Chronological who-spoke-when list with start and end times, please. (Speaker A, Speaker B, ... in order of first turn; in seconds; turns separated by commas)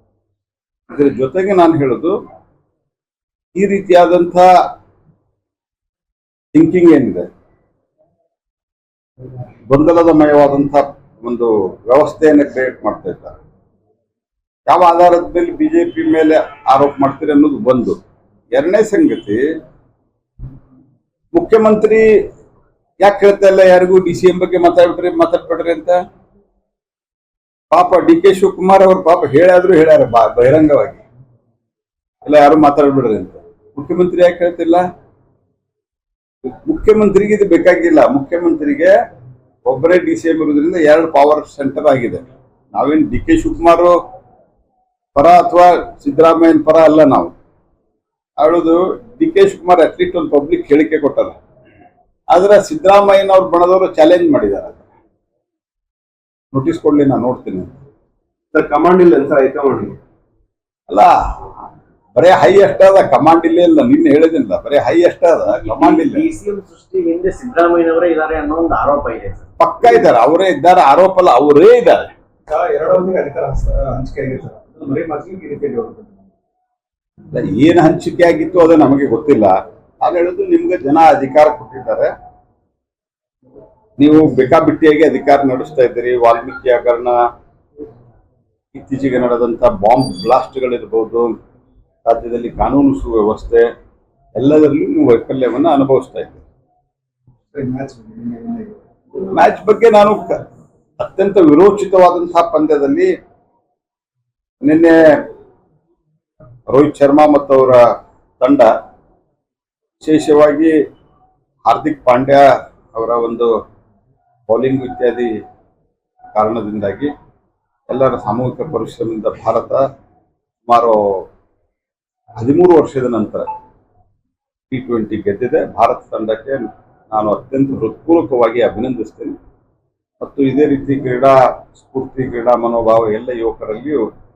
Speaker A: 0.9-2.1, Speaker A: 3.6-4.5, Speaker A: 6.5-7.3, Speaker A: 9.7-13.4, Speaker A: 14.7-18.0, Speaker A: 18.5-19.4, Speaker A: 21.3-22.1, Speaker A: 23.0-26.0, Speaker A: 27.7-31.0, Speaker A: 32.2-34.8, Speaker A: 36.5-38.9, Speaker A: 39.7-44.0, Speaker A: 45.1-47.3, Speaker A: 48.4-51.4, Speaker A: 52.3-54.8, Speaker A: 56.5-57.7, Speaker B: 58.5-60.0, Speaker A: 62.1-66.3, Speaker C: 65.5-69.5, Speaker A: 69.6-72.1, Speaker B: 72.5-76.2, Speaker A: 77.3-82.1, Speaker A: 84.0-87.2, Speaker A: 88.7-91.3, Speaker A: 92.0-93.7, Speaker A: 94.4-96.4, Speaker B: 97.5-98.8, Speaker A: 99.3-100.3, Speaker A: 101.0-103.1, Speaker A: 104.6-105.2, Speaker A: 106.7-107.8, Speaker A: 108.4-108.7, Speaker A: 110.0-110.7, Speaker A: 111.7-112.4, Speaker A: 112.9-113.5, Speaker A: 114.5-115.3, Speaker A: 116.3-117.1, Speaker A: 117.9-119.8, Speaker A: 120.7-121.2, Speaker A: 122.4-123.5, Speaker A: 124.7-129.4, Speaker A: 130.2-134.0